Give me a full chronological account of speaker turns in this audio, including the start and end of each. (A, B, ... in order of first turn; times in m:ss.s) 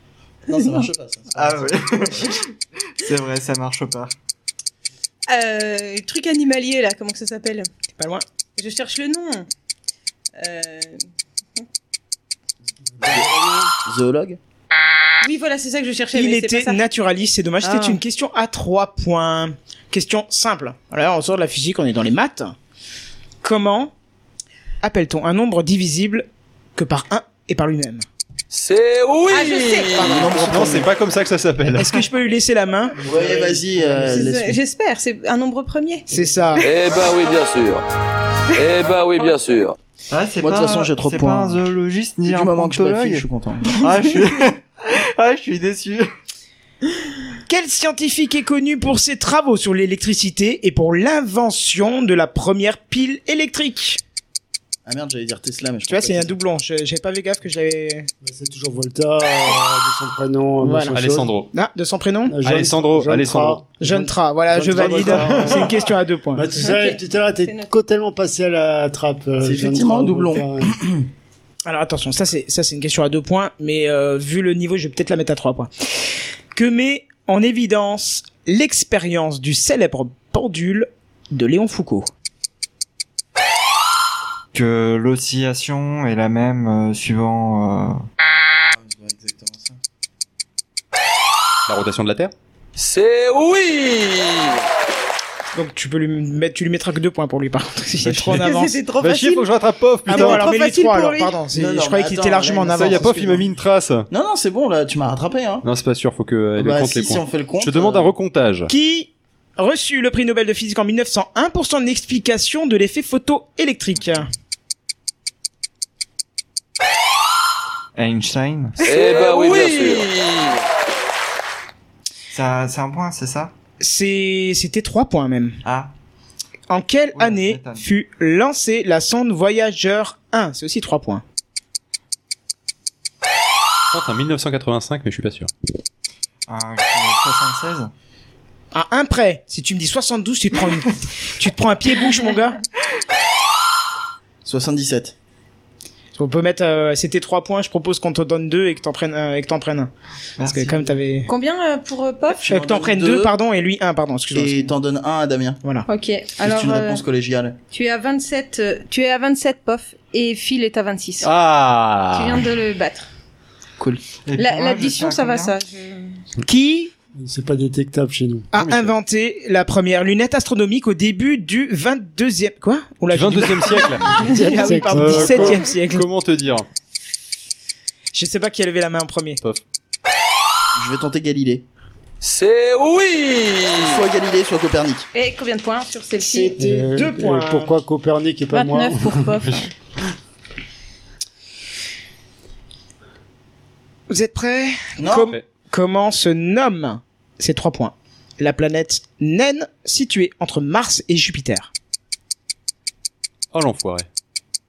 0:00.5-0:02.3 A
0:00.5-0:00.9 B
0:01.3-0:02.4 C
0:03.0-0:04.1 C
0:05.3-0:07.7 B
0:08.0-0:08.2 D
0:08.6-0:09.5 B
0:10.4-0:11.0 B
0:13.0-0:13.7 E
0:13.8-0:14.4 A
0:15.2-0:16.8 B
0:16.1-0:22.5 D
0:17.6-0:18.0 B
0:23.4-0:23.9 D
0:24.8-0:28.0 D
0:28.5-0:30.2 F
0:29.3-0:30.4 B
0:30.0-0:30.8 D
0:30.2-0:32.0 G
0:30.2-0:30.8 A
0:31.7-0:34.3 D
0:33.0-0:34.6 A
0:34.0-0:36.9 B
0:36.1-0:36.6 D
0:36.6-0:37.8 F
0:38.6-0:39.7 F
0:40.1-0:46.0 C
0:40.4-0:41.6 A
0:42.2-0:43.7 A
0:47.5-0:54.0 D
0:54.8-0:56.4 A
0:55.9-0:58.1 D
0:58.2-1:01.3 E
1:00.6-1:01.0 D
1:00.9-1:01.5 G
1:01.5-1:02.4 D
1:02.3-1:10.8 E
1:02.4-1:03.6 G
1:03.8-1:06.6 D
1:06.5-1:07.7 B
1:09.4-1:11.1 A
1:11.6-1:22.1 D
1:24.5-1:28.0 C
1:28.7-1:29.8 A
1:31.7-1:32.3 G
1:32.8-1:34.6 F
1:35.5-1:38.8 D
1:38.0-1:40.5 G
1:38.3-1:39.5 B
1:40.1-1:43.4 D
1:40.1-1:41.4 B
1:41.5-1:43.4 A
1:42.7-1:44.1 G
1:44.1-1:45.6 A
1:45.6-1:48.7 G
1:46.6-1:48.1 A
1:48.7-1:54.3 D
1:58.0-1:59.2 C
1:58.8-2:00.5 F
2:02.3-2:03.5 C
2:03.8-2:05.6 D
2:05.6-2:05.9 C
2:06.7-2:11.2 D
2:07.1-2:07.8 C
2:13.9-2:15.5 G
2:16.5-2:17.9 C
2:18.7-2:22.6 D
2:24.4-2:25.1 A
2:26.1-2:29.9 D
2:30.4-2:30.9 C
2:30.4-2:31.3 D
2:31.2-2:32.4 B
2:32.4-2:33.3 A
2:32.5-2:34.7 D
2:34.3-2:35.6 A
2:35.8-2:37.0 B
2:36.4-2:37.6 A
2:37.7-2:41.3 B
2:41.2-2:42.4 G
2:42.1-2:43.1 B
2:44.2-2:45.6 C
2:44.3-2:46.2 B
2:46.4-2:46.9 D
2:47.2-2:48.5 E
2:48.5-2:56.0 D
2:48.5-2:48.9 G
2:53.1-2:54.2 G
2:54.2-2:55.6 E
2:54.2-2:54.8 B
2:54.9-2:56.7 G
2:58.1-2:59.4 D
3:00.8-3:01.6 A
3:02.2-3:04.0 F
3:03.7-3:05.1 A
3:05.1-3:06.6 B
3:06.2-3:07.7 D
3:06.6-3:09.4 E
3:08.5-3:09.7 B
3:14.1-3:21.7 D
3:15.0-3:15.3 A
3:23.5-3:24.1 G